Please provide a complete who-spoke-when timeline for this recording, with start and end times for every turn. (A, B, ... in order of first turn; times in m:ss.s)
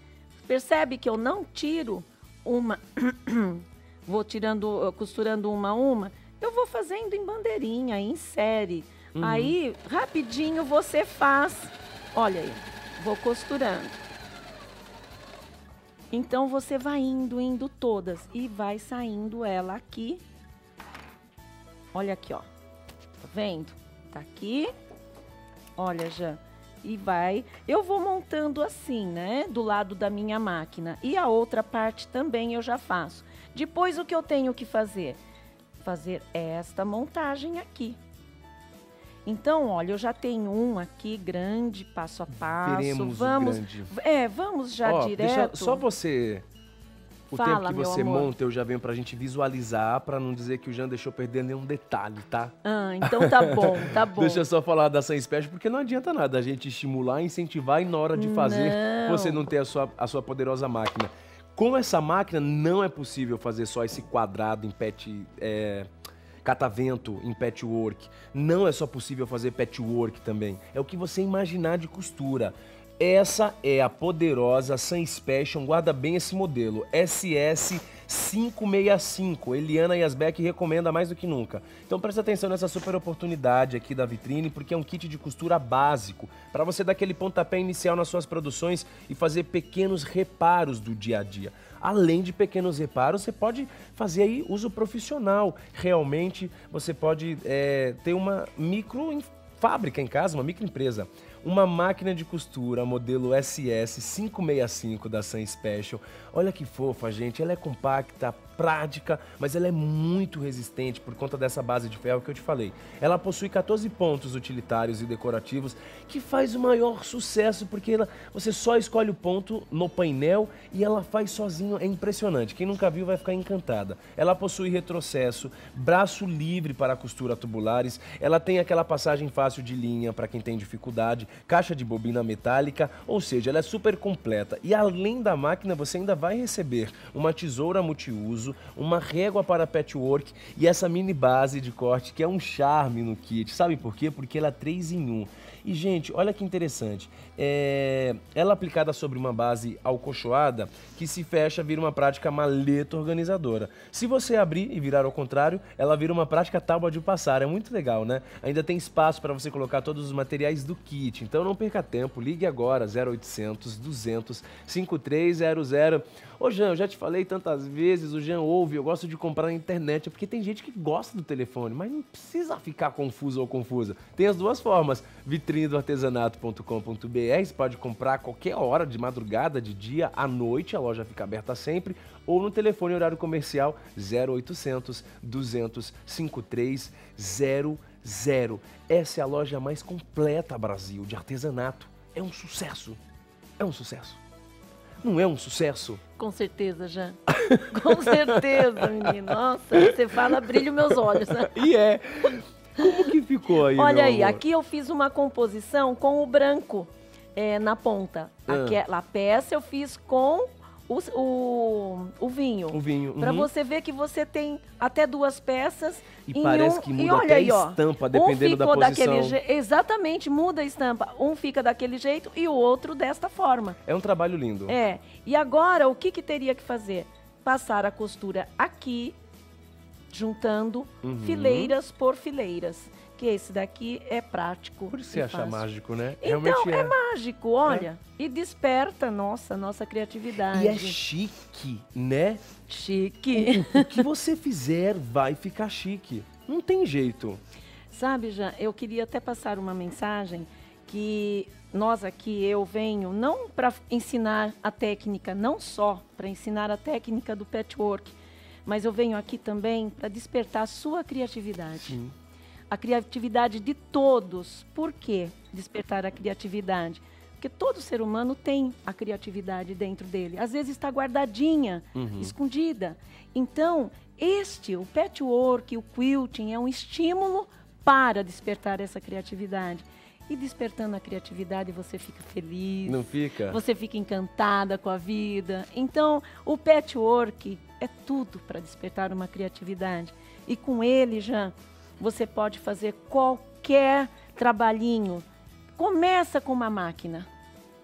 0:00.4-0:14.0 A
0:09.1-0:09.5 B
0:16.1-0:20.2 A
0:21.9-0:22.5 A
0:23.2-0:24.7 A
0:25.8-0:35.2 A
0:35.8-0:38.0 A
0:39.2-0:45.8 A
0:42.3-0:43.9 B
0:44.8-0:46.4 B
0:47.3-1:05.9 B
0:47.3-0:48.3 A
0:52.6-0:54.4 A
0:58.1-0:59.4 A
1:06.4-3:13.0 B
3:13.6-3:14.2 B
3:15.0-3:16.0 B
3:16.2-3:21.6 A
3:17.3-3:24.4 B
3:22.8-3:23.1 A
3:23.7-3:43.8 A
3:28.5-3:28.8 B
3:32.7-3:33.5 B
3:36.3-3:39.4 B
3:43.8-3:44.8 B
3:44.7-3:49.2 A
3:50.1-3:55.6 A
3:51.0-3:51.7 B
3:54.9-3:57.0 B
3:56.2-4:01.0 A
4:00.5-4:02.4 B
4:02.7-4:04.1 A
4:03.3-4:07.4 B
4:07.9-4:22.0 A
4:21.9-4:22.1 B
4:22.7-4:57.3 A
4:31.9-4:32.3 B
4:42.8-4:43.6 B